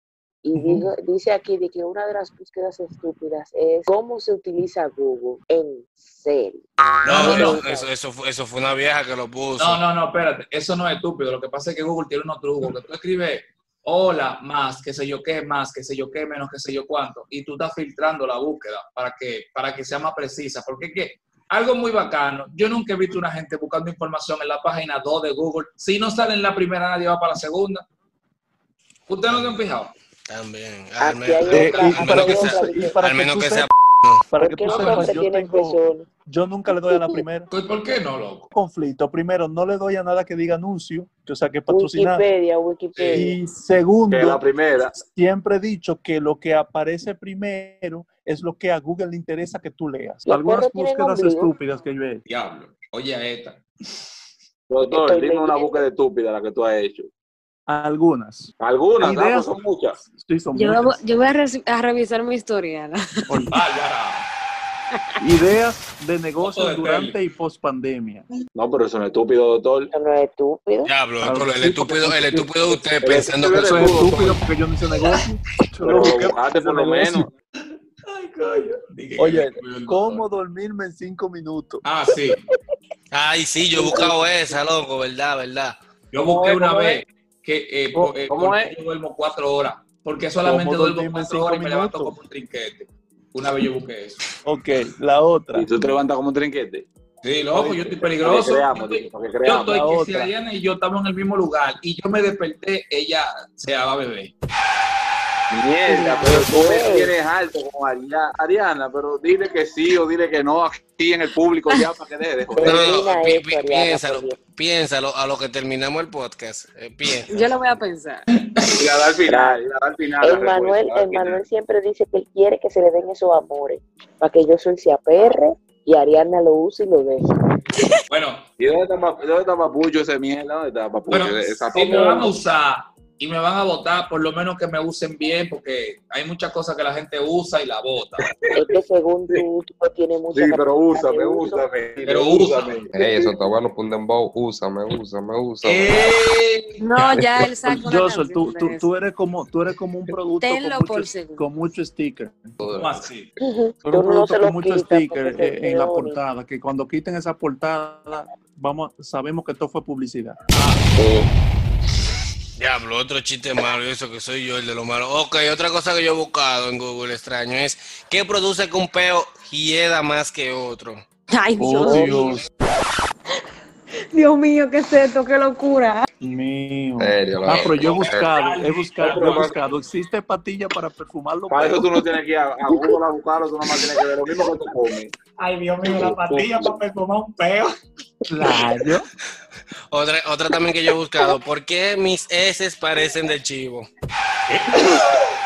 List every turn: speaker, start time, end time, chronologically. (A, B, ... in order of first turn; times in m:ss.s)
0:00.4-0:07.9 A
0:07.0-0:07.6 B
0:07.0-0:09.8 C
0:09.6-0:27.8 B
0:29.1-0:29.9 B
0:29.3-0:29.6 C
0:30.3-0:34.2 C
0:31.0-0:33.0 A
0:31.5-0:33.7 D
0:31.5-0:32.0 B
0:34.3-0:37.5 D
0:34.4-0:36.1 A
0:34.7-0:35.2 B
0:36.8-0:37.2 A
0:37.5-0:38.5 B
0:38.5-0:42.2 D
0:41.7-0:43.4 A
0:43.0-0:43.2 B
0:43.1-0:44.4 D
0:44.1-0:45.0 E
0:45.0-0:52.2 D
0:50.3-0:51.5 A
0:52.3-0:53.6 B
0:54.7-0:57.1 E
0:54.9-0:55.8 A
0:57.7-0:59.6 D
0:58.6-1:00.0 E
1:00.1-1:01.0 D
1:00.5-1:03.4 F
1:03.5-1:04.3 B
1:05.2-1:08.3 D
1:06.4-1:07.2 B
1:08.6-1:09.9 E
1:09.9-1:10.9 A
1:10.8-1:13.9 C
1:11.2-1:12.8 D
1:13.0-1:14.4 E
1:13.5-1:17.3 D
1:15.8-1:17.3 E
1:18.0-1:20.2 B
1:19.2-1:21.8 D
1:21.8-1:22.4 B
1:23.1-1:25.8 C
1:26.1-1:34.2 B
1:26.2-1:27.0 E
1:28.0-1:28.7 E
1:30.4-1:32.2 D
1:34.4-1:35.7 D
1:35.5-1:36.9 E
1:37.2-1:44.3 B
1:37.5-1:39.8 E
1:39.7-1:40.3 D
1:45.5-1:52.9 E
1:45.9-1:47.1 A
1:52.5-1:54.4 A
1:52.6-1:57.6 C
1:57.2-1:58.2 F
1:58.3-1:58.8 B
1:58.8-2:01.4 E
1:59.3-1:59.6 A
2:00.2-2:07.3 A
2:08.1-2:08.5 B
2:08.6-2:12.3 E
2:11.1-2:18.3 B
2:18.2-2:18.7 E
2:18.6-2:21.6 A
2:20.3-2:22.9 E
2:22.0-2:22.8 B
2:22.9-2:26.1 G
2:23.0-2:23.3 A
2:25.6-2:27.5 B
2:26.8-2:28.9 F
2:27.6-2:32.6 D
2:30.4-2:31.5 F
2:32.6-2:33.1 G
2:32.7-2:33.3 B
2:33.4-2:36.2 A
2:33.8-2:40.4 D
2:40.5-2:40.9 B
2:42.6-2:51.0 C
2:51.3-2:52.4 F
2:51.6-2:52.5 D
2:54.1-2:56.1 F
2:56.2-3:02.1 D
2:57.0-2:58.3 G
2:57.6-2:59.5 B
2:59.0-2:59.6 E
3:01.5-3:05.1 E
3:05.4-3:07.7 B
3:05.9-3:06.7 E
3:08.3-3:09.1 D
3:09.9-3:13.9 C
3:14.5-3:15.3 B